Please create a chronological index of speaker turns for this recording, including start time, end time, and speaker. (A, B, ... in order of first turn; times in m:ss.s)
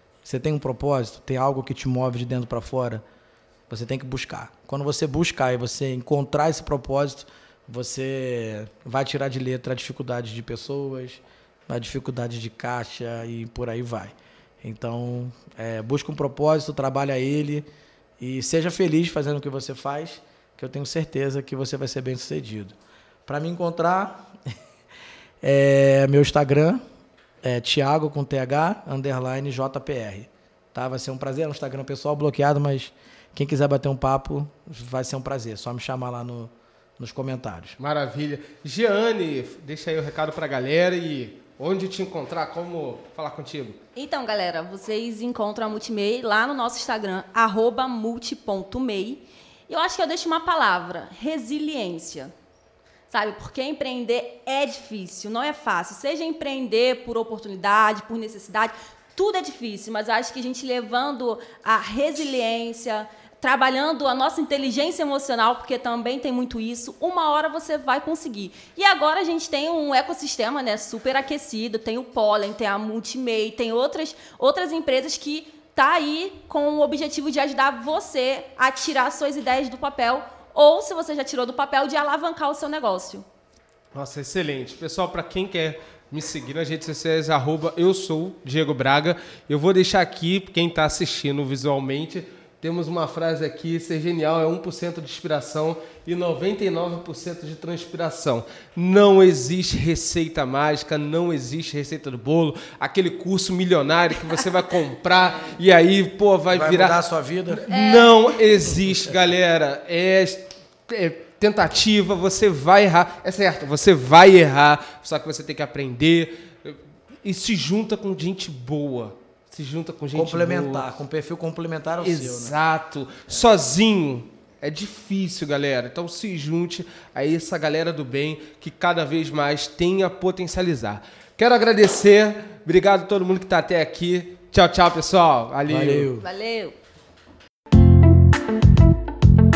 0:00.2-0:03.0 A
0:03.7-0:17.7 A
0:18.2-0:24.6 A
0:25.4-0:26.8 A
0:27.4-0:37.8 A
0:37.8-0:43.8 B
0:44.0-0:52.3 C
0:53.1-1:23.3 C
1:23.9-1:47.0 B
1:46.5-1:47.7 A
1:47.5-2:00.9 B
1:47.7-1:48.4 C
2:00.1-2:02.6 A
2:02.0-2:16.1 B
2:15.7-2:16.3 A
2:16.2-2:16.8 C